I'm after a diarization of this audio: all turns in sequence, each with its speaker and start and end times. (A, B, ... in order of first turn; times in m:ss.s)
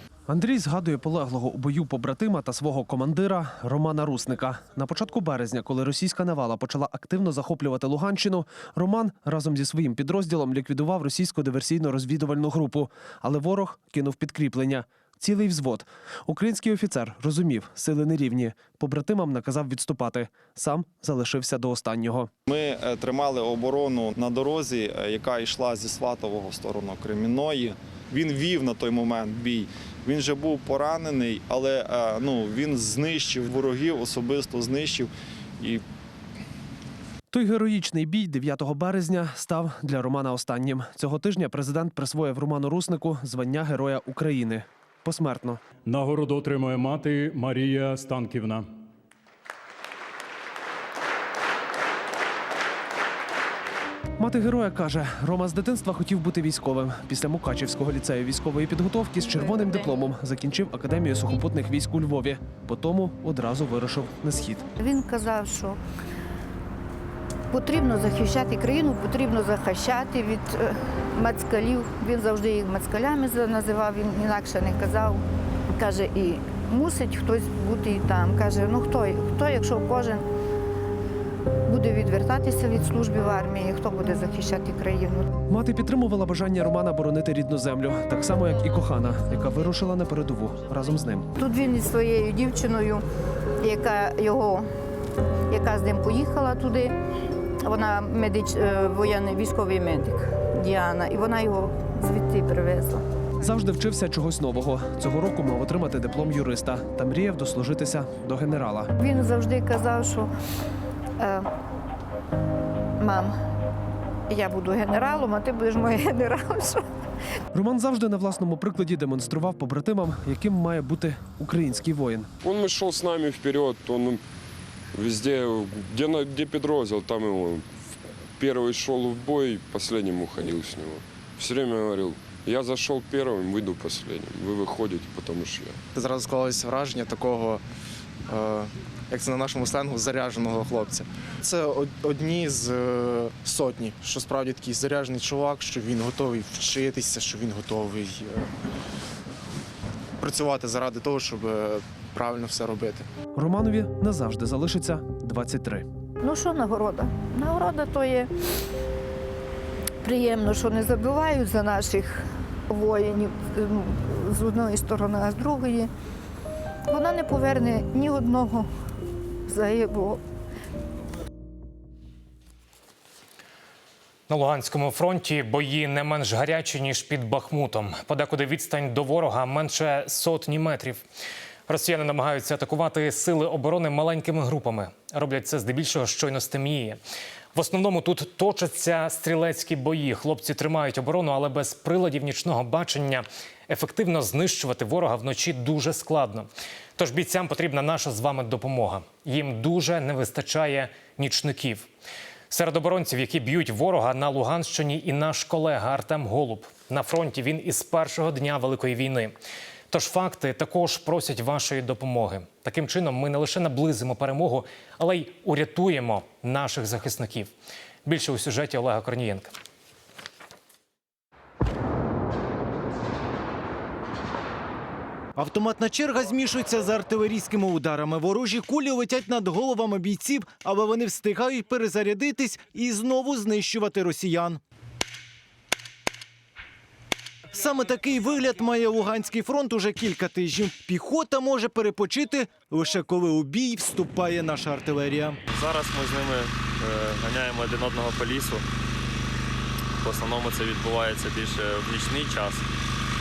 0:00.3-0:22.3 A
0:22.5-0:35.8 B
0:37.3-0:45.6 A
0:45.9-0:48.6 C
0:54.2-1:04.7 A
1:04.8-1:05.8 D
1:07.5-1:15.2 D
1:15.8-1:20.2 D
1:21.7-1:25.3 D
1:25.5-1:31.3 A
1:31.4-1:33.0 D
1:33.6-1:34.6 D
1:35.5-1:36.9 D
1:37.6-1:43.0 D
1:43.4-1:48.9 A
1:49.0-1:50.3 D
1:51.2-1:51.5 D
1:53.0-1:53.3 D
1:54.3-1:56.8 D
1:57.5-2:02.3 A
2:02.4-2:04.2 E
2:04.9-2:07.6 E
2:08.4-2:15.8 E
2:15.9-2:17.6 F
2:18.3-2:28.5 F
2:30.2-2:33.1 F
2:33.4-2:35.8 A
2:36.2-2:38.3 D
2:40.0-2:45.9 D
2:46.9-2:48.7 D
2:49.5-2:50.2 D
2:54.3-3:01.0 G
3:01.7-3:07.0 G
3:07.6-3:21.9 G
3:22.5-3:29.3 G
3:29.9-3:37.5 G
3:38.0-3:39.5 G
3:45.4-3:54.6 H
3:57.5-4:05.4 H
4:05.5-4:08.6 I
4:10.0-4:12.6 I